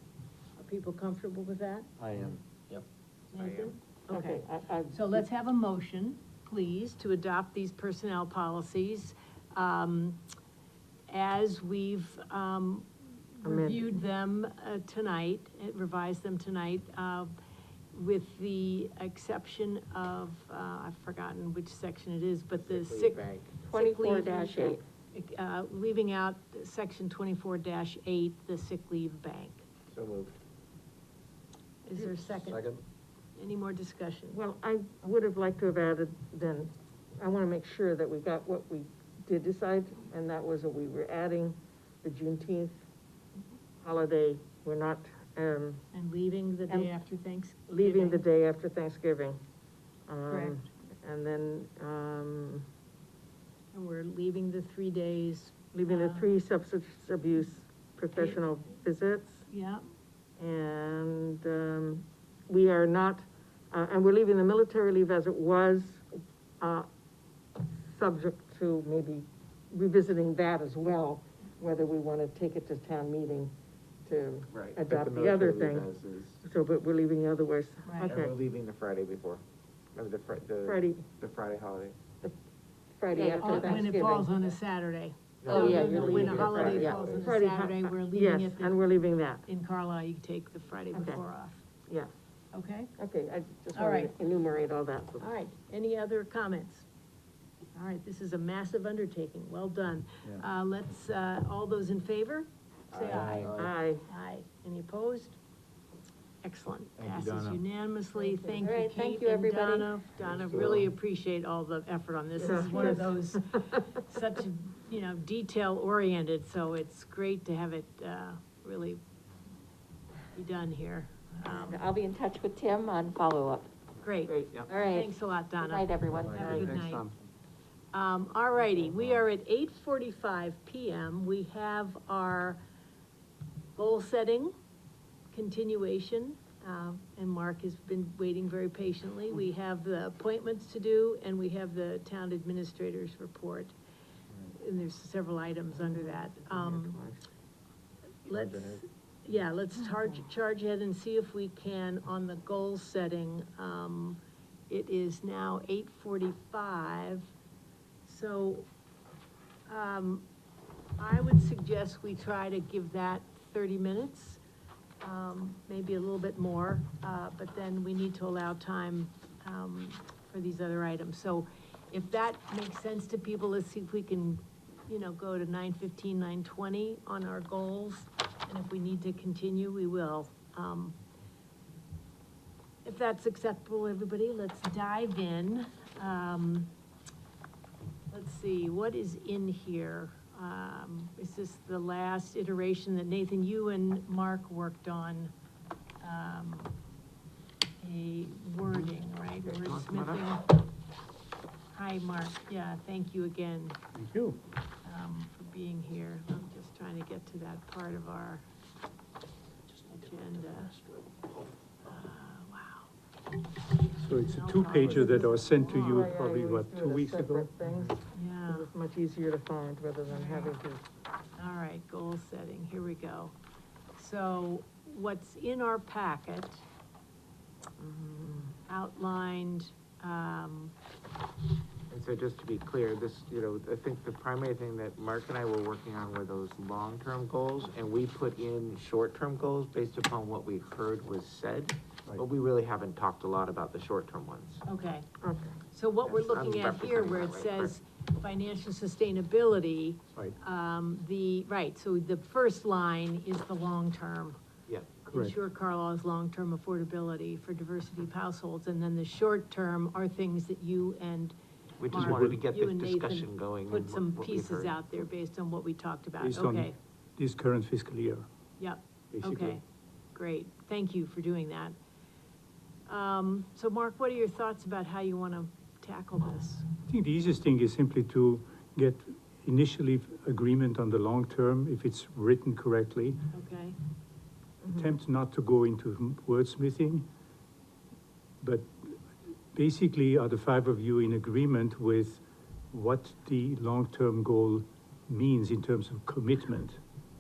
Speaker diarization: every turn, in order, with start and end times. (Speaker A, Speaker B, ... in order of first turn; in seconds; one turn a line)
Speaker A: 0.6-1.9
Speaker B: 2.0-2.8
Speaker A: 3.3-10.2
Speaker C: 3.4-3.8
Speaker D: 4.1-5.2
Speaker A: 11.1-17.3
Speaker D: 13.4-13.9
Speaker A: 17.9-29.6
Speaker C: 22.6-23.6
Speaker E: 23.7-24.8
Speaker C: 29.9-30.4
Speaker A: 31.9-32.7
Speaker B: 32.5-32.8
Speaker A: 33.4-34.4
Speaker D: 34.3-42.8
Speaker D: 43.8-45.8
Speaker A: 45.9-48.2
Speaker D: 47.7-49.4
Speaker D: 50.1-52.7
Speaker A: 50.3-50.6
Speaker A: 53.7-56.3
Speaker D: 55.7-59.5
Speaker A: 59.5-59.8
Speaker D: 60.4-66.1
Speaker D: 66.6-66.9
Speaker D: 67.6-73.5
Speaker D: 74.1-75.9
Speaker C: 74.5-76.4
Speaker D: 76.4-78.3
Speaker A: 77.9-78.2
Speaker C: 78.0-79.4
Speaker C: 79.9-82.0
Speaker D: 80.6-81.0
Speaker D: 83.0-84.3
Speaker E: 83.1-83.7
Speaker A: 83.4-88.8
Speaker C: 85.4-87.0
Speaker E: 85.5-85.8
Speaker B: 85.5-86.0
Speaker D: 85.6-89.5
Speaker B: 86.6-87.2
Speaker A: 89.5-91.6
Speaker D: 90.9-91.2
Speaker A: 92.5-92.9
Speaker D: 93.0-95.3
Speaker A: 93.7-94.1
Speaker A: 95.2-96.9
Speaker A: 97.7-103.5
Speaker C: 103.0-103.6
Speaker B: 103.0-103.7
Speaker D: 103.5-104.0
Speaker A: 104.1-105.4
Speaker A: 106.4-119.0
Speaker B: 107.0-107.6
Speaker D: 108.2-108.6
Speaker E: 108.6-109.8
Speaker B: 109.6-110.9
Speaker D: 112.4-113.2
Speaker A: 120.3-121.8
Speaker E: 121.5-123.7
Speaker A: 124.0-127.1
Speaker D: 124.3-124.6
Speaker E: 124.6-125.1
Speaker E: 125.6-126.6
Speaker B: 126.1-126.8
Speaker F: 126.7-127.0
Speaker A: 127.9-132.6
Speaker A: 133.8-134.5
Speaker A: 135.3-143.8
Speaker A: 144.4-147.0
Speaker D: 145.7-147.2
Speaker A: 148.2-157.3
Speaker B: 148.3-148.7
Speaker A: 158.0-158.7
Speaker A: 159.7-160.3
Speaker A: 161.0-164.4
Speaker A: 165.0-181.0
Speaker A: 182.8-186.7
Speaker A: 188.1-195.3
Speaker A: 196.0-196.7
Speaker A: 197.8-200.6
Speaker C: 199.4-200.3
Speaker A: 201.7-203.8
Speaker F: 203.9-204.4
Speaker A: 204.8-208.4
Speaker A: 209.7-210.9
Speaker A: 211.8-212.9
Speaker F: 214.0-217.9
Speaker A: 214.1-216.0
Speaker D: 214.8-220.8
Speaker A: 218.1-218.7
Speaker A: 220.1-220.6
Speaker A: 221.4-223.4
Speaker A: 224.0-226.6
Speaker D: 227.8-228.6
Speaker A: 228.7-230.7
Speaker C: 231.9-244.6
Speaker A: 244.7-245.1
Speaker D: 245.2-245.6
Speaker A: 245.7-254.4
Speaker C: 246.1-247.7
Speaker C: 254.7-254.9
Speaker A: 255.1-261.4
Speaker C: 261.8-264.9
Speaker F: 261.9-262.4
Speaker A: 261.9-266.8
Speaker F: 266.2-268.3
Speaker A: 268.6-269.6
Speaker F: 269.1-269.6
Speaker A: 270.1-271.8
Speaker A: 272.9-276.7
Speaker F: 276.9-283.2
Speaker A: 283.3-283.8
Speaker F: 284.7-287.1
Speaker F: 288.4-289.0
Speaker F: 289.5-296.8